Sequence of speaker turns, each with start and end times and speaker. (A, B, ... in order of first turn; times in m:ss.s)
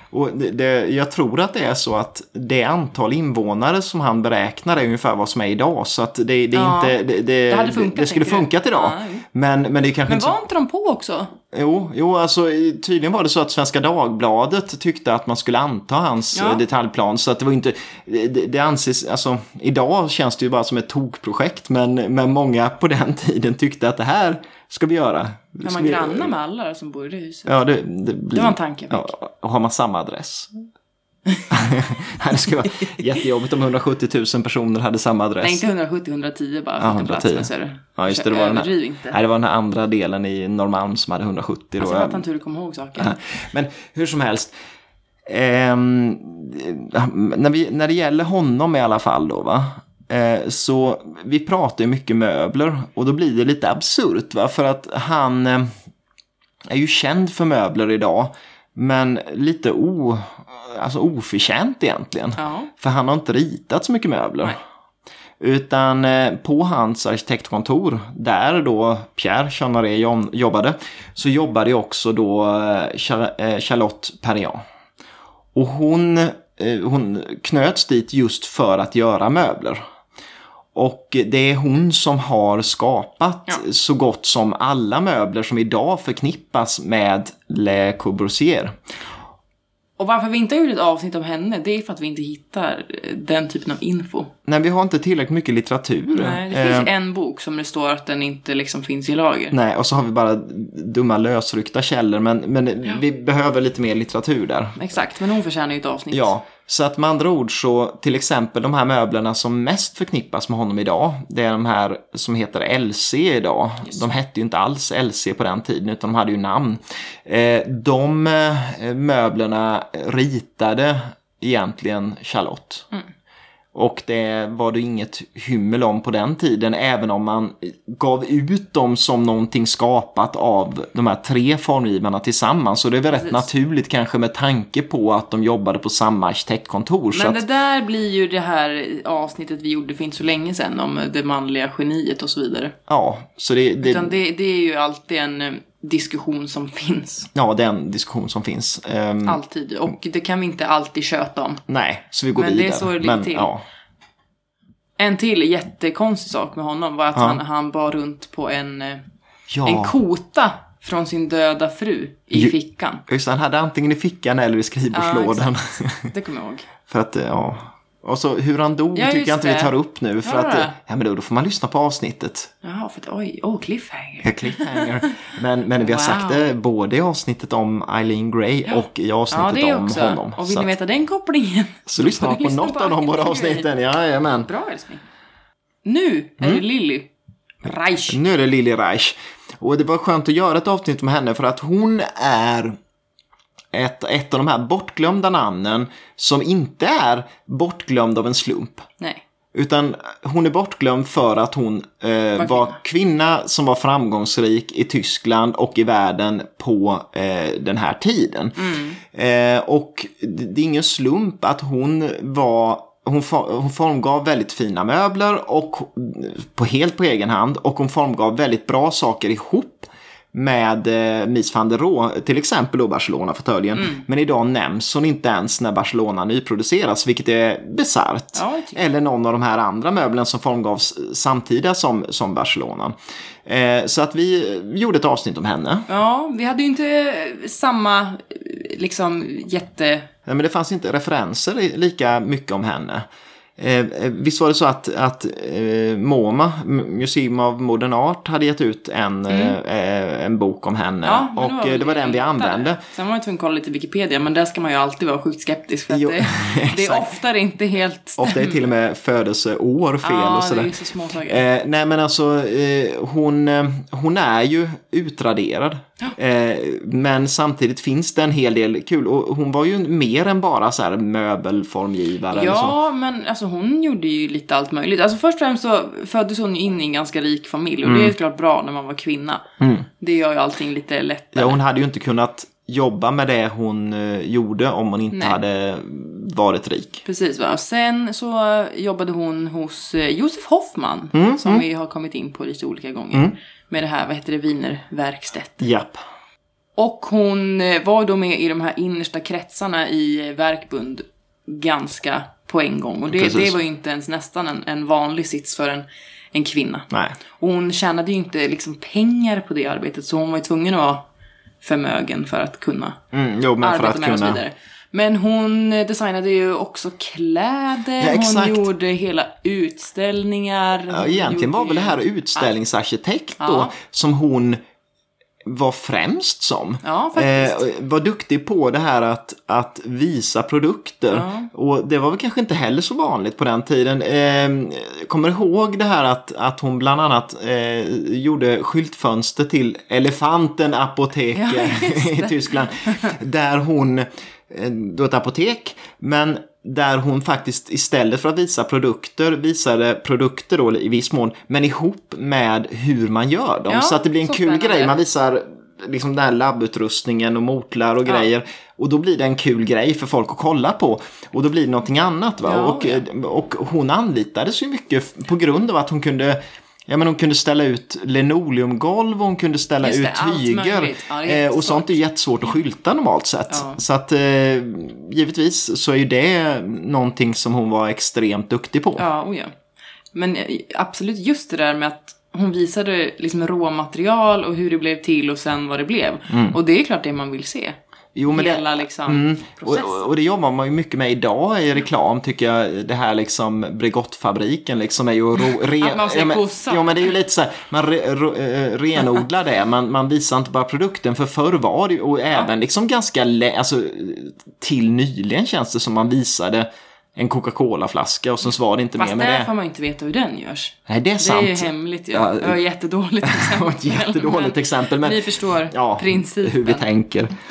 0:00.1-0:10.4 A
0:06.5-0:07.0 B
0:07.5-0:09.2 B
0:10.1-0:11.3 B
0:11.5-0:26.3 A
0:16.3-0:16.6 B
0:25.6-0:27.5 B
0:27.4-0:30.5 A
0:28.3-0:29.1 B
0:31.5-0:35.6 A
0:35.4-0:39.2 B
0:36.8-0:42.2 A
0:41.8-0:43.2 B
0:43.0-0:44.5 A
0:45.3-0:55.7 A
0:56.7-1:04.6 A
1:02.4-1:02.7 B
1:05.4-1:14.6 A
1:15.5-1:19.8 A
1:20.7-1:28.8 A
1:30.0-1:34.3 B
1:34.5-1:36.9 A
1:36.1-1:39.5 B
1:39.5-1:44.8 A
1:44.8-1:46.3 B
1:46.1-2:02.9 A
2:03.7-2:17.4 A
2:13.1-2:13.4 B
2:17.1-2:22.7 B
2:22.9-2:24.1 A
2:23.8-2:27.3 B
2:27.3-2:29.4 A
2:29.2-2:31.6 B
2:31.7-2:33.6 A
2:32.4-2:33.5 B
2:35.0-2:39.0 B
2:37.1-2:37.4 A
2:39.5-2:40.0 A
2:39.6-2:43.0 B
2:43.1-2:46.1 A
2:44.9-2:46.7 B
2:46.9-2:52.5 A
2:48.9-2:50.7 B
2:52.6-2:55.2 B
2:54.2-3:00.7 A
2:55.8-2:56.5 B
2:59.3-3:03.7 B
3:01.9-3:04.5 A
3:04.4-3:05.0 B
3:05.8-3:07.1 B
3:07.6-3:08.2 B
3:08.1-3:12.8 A
3:13.7-3:18.8 A
3:19.5-3:55.9 A
3:22.4-3:22.7 B
3:28.6-3:29.0 B
3:43.8-3:44.0 B
3:48.3-3:48.8 B
3:55.9-4:00.1 B
4:00.2-4:03.0 A
4:03.6-4:12.8 A
4:09.3-4:09.6 B
4:11.0-4:18.6 B
4:15.9-4:17.1 A
4:18.2-4:20.7 A
4:20.0-4:21.4 B
4:21.2-4:32.8 A
4:32.3-4:39.4 B
4:37.8-4:38.1 A
4:39.6-4:39.8 A
4:40.0-4:41.6 B
4:41.3-4:47.0 A
4:45.1-4:45.4 B
4:47.0-4:55.6 B
4:51.1-4:51.6 A
4:55.6-4:56.0 A
4:56.8-5:11.0 B
5:03.1-5:03.6 A
5:06.9-5:07.2 A
5:11.6-5:13.0 B
5:13.1-5:14.4 A
5:13.6-5:22.5 B
5:18.0-5:18.7 A
5:20.9-5:24.6 A
5:23.4-5:23.7 B
5:25.4-6:19.0 A
5:26.8-5:27.7 B
5:31.1-5:31.5 B
5:41.3-5:43.2 B
5:53.7-5:55.0 B
6:02.4-6:03.0 B
6:09.8-6:12.0 B
6:13.5-6:13.8 B
6:19.0-6:19.5 B
6:20.1-6:30.0 B
6:26.3-6:26.6 A
6:28.1-6:49.5 A
6:35.6-6:37.1 B
6:49.0-6:56.9 B
6:50.9-6:52.6 A
6:53.2-6:57.3 A